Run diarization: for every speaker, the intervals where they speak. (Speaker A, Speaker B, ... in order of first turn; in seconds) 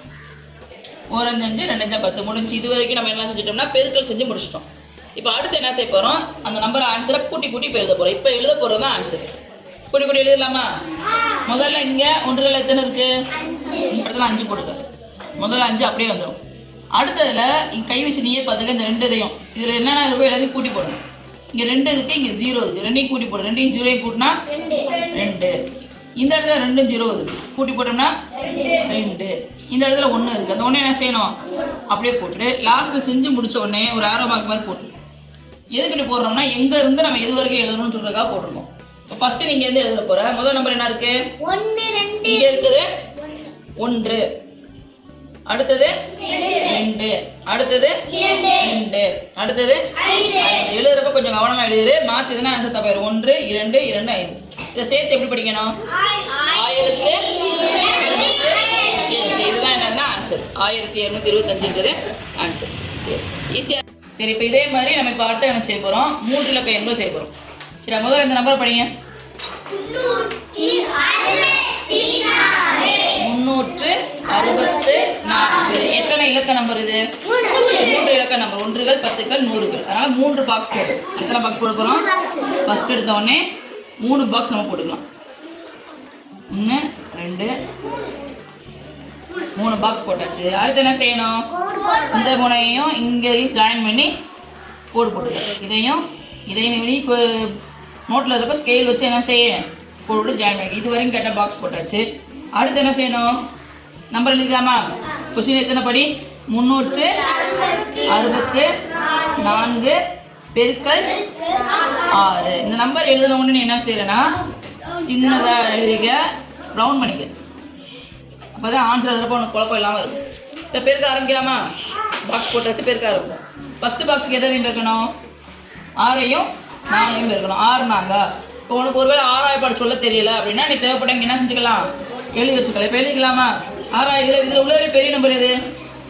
Speaker A: 1.1-4.7, 5.2-9.3, 9.9-10.7, 11.4-13.1, 13.7-14.8, 15.4-16.4, 16.9-21.0, 21.5-24.4, 25.0-25.6, 26.2-31.4, 31.9-35.0, 35.7-41.2, 42.2-42.9, 43.8-44.2, 45.5-45.9, 46.5-48.0, 48.5-55.7, 56.4-67.3, 67.8-68.9, 73.1-77.0, 77.6-82.1, 82.6-83.4, 84.0-85.0, 86.5-87.5, 89.4-91.5, 92.1-94.1, 94.9-97.5, 98.1-102.0, 102.5-103.3, 104.1-107.3, 108.0-108.8, 109.3-110.0, 110.5-111.1, 112.0-114.4, 115.0-117.3, 118.5-120.2, 120.7-121.6, 122.2-125.1, 126.0-135.5
Speaker B: 13.5-13.8, 24.7-25.0, 41.4-42.6, 46.3-46.6, 48.2-48.6, 56.1-56.5, 57.1-59.0, 69.7-73.1, 77.3-77.8, 82.0-82.6, 91.5-92.2, 107.2-108.1, 111.6-112.0